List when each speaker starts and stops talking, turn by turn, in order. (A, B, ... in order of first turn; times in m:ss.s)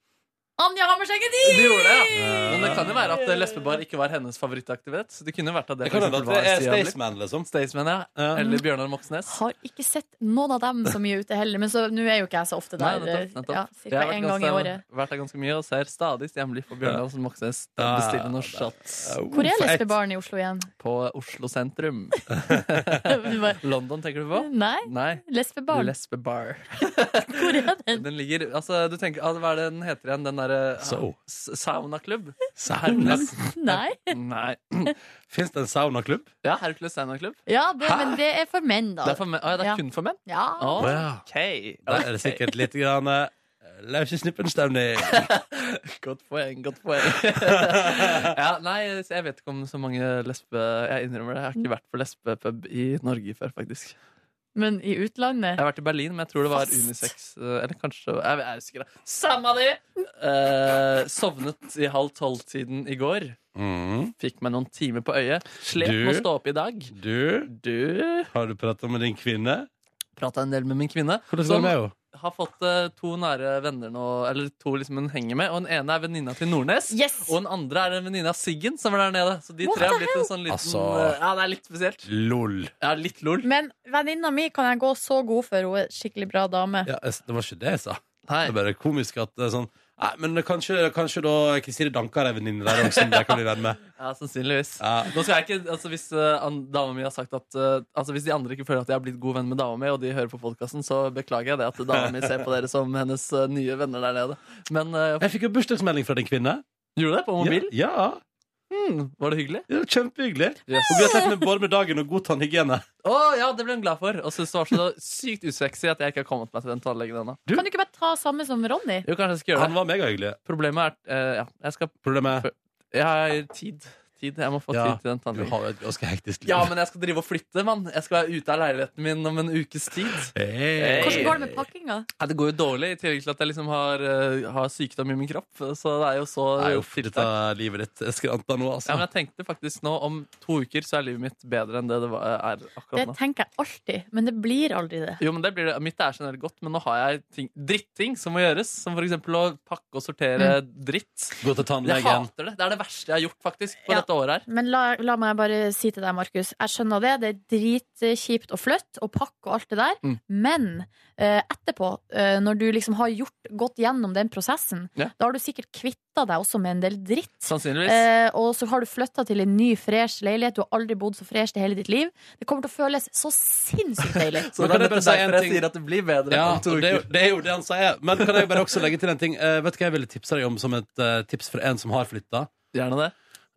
0:00.6-0:02.6 A
0:01.4-0:07.0 B
0:02.2-0:03.6 C
0:05.8-0:07.5 C
0:07.5-0:09.3 B
0:08.3-0:08.6 A
0:09.3-0:14.8 A
0:12.8-0:19.2 B
0:17.8-0:19.9 C
0:19.3-0:20.7 A
0:20.8-0:34.9 B
0:23.1-0:23.6 A
0:24.4-0:25.9 A
0:27.3-0:28.0 A
0:30.8-0:31.1 C
0:32.6-0:33.3 C
0:33.1-0:34.1 A
0:35.3-0:36.3 C
0:36.4-0:37.4 B
0:37.5-0:40.9 A
0:37.8-0:38.2 C
0:39.0-0:42.5 B
0:40.8-0:41.2 C
0:41.8-0:45.3 C
0:45.1-0:54.0 B
0:47.2-0:48.3 C
0:54.6-0:55.6 A
0:55.6-1:03.4 B
0:56.5-0:57.1 A
1:03.5-1:04.1 C
1:04.2-1:06.9 B
1:05.8-1:06.3 C
1:06.9-1:07.5 C
1:07.5-1:08.3 B
1:08.3-1:09.7 C
1:10.2-1:22.1 B
1:11.3-1:11.9 C
1:16.9-1:17.3 A
1:19.6-1:20.3 A
1:20.5-1:21.2 C
1:22.0-1:22.7 C
1:22.8-1:23.5 B
1:23.4-1:26.9 A
1:26.8-1:33.8 C
1:28.3-1:28.5 B
1:32.7-1:33.4 B
1:34.0-1:45.3 B
1:34.8-1:35.1 C
1:42.0-1:42.3 C
1:45.2-1:46.6 C
1:47.0-1:47.7 B
1:47.4-1:48.2 C
1:48.7-1:49.7 B
1:49.7-1:52.8 C
1:50.7-1:51.0 B
1:50.7-1:51.2 A
1:53.0-1:57.4 B
1:57.5-1:59.0 A
1:59.0-1:59.8 B
1:59.5-2:00.4 C
2:00.4-2:05.5 B
2:02.0-2:02.4 C
2:04.7-2:06.7 C
2:06.4-2:11.4 B
2:10.3-2:11.6 C
2:11.0-2:12.1 A
2:12.2-2:17.3 B
2:16.6-2:19.0 C
2:18.8-2:23.2 B
2:22.9-2:25.2 A
2:25.2-2:34.4 B
2:31.4-2:32.3 C
2:33.8-2:54.5 A
2:47.4-2:48.0 B
2:54.5-2:57.1 B
2:54.6-2:55.7 C
2:56.3-3:02.5 C
2:58.2-2:58.8 B
3:02.7-3:03.1 B